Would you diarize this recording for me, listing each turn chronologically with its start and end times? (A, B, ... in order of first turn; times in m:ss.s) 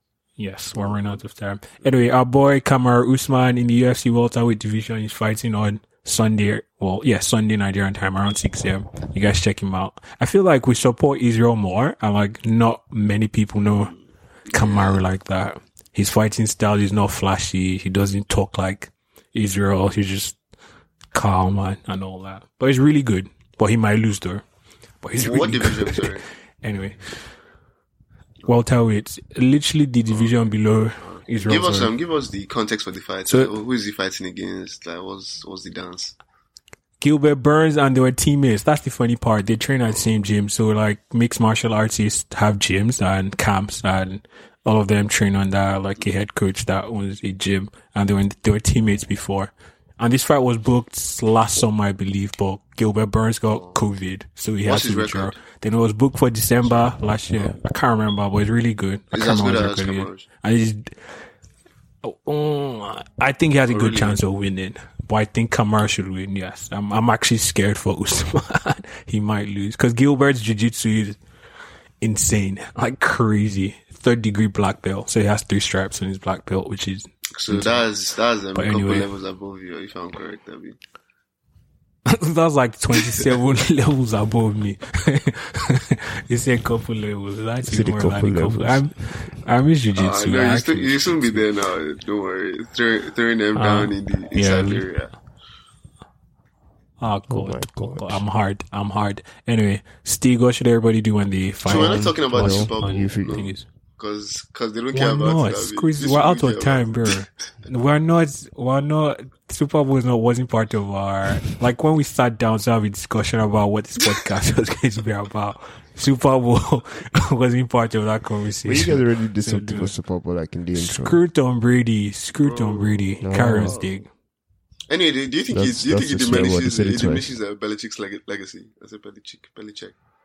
0:00.4-0:13.9 A
0:00.7-0:01.2 B
0:13.6-0:15.0 B
0:14.5-0:20.4 A
0:21.1-0:24.4 A
0:25.0-0:27.2 A
0:25.2-0:26.2 B
0:28.4-0:31.9 A
0:30.1-0:36.1 B
0:37.0-1:01.2 A
0:53.5-0:53.8 B
0:54.6-0:55.4 B
0:56.6-0:56.9 B
0:59.1-1:00.2 B
1:02.0-1:11.2 A
1:03.7-1:04.2 B
1:12.0-1:17.8 A
1:17.4-1:20.8 B
1:18.5-1:19.1 A
1:22.1-1:31.4 A
1:23.1-1:23.3 B
1:27.6-1:28.9 C
1:30.0-1:35.1 B
1:33.6-1:34.8 A
1:37.0-1:43.6 A
1:37.3-1:38.2 C
1:41.6-1:47.2 B
1:41.6-1:43.5 C
1:44.9-1:59.9 A
1:58.6-2:01.2 C
2:00.7-2:04.1 A
2:02.4-2:03.9 B
2:03.2-2:03.8 C
2:04.9-2:09.9 B
2:05.5-2:07.3 C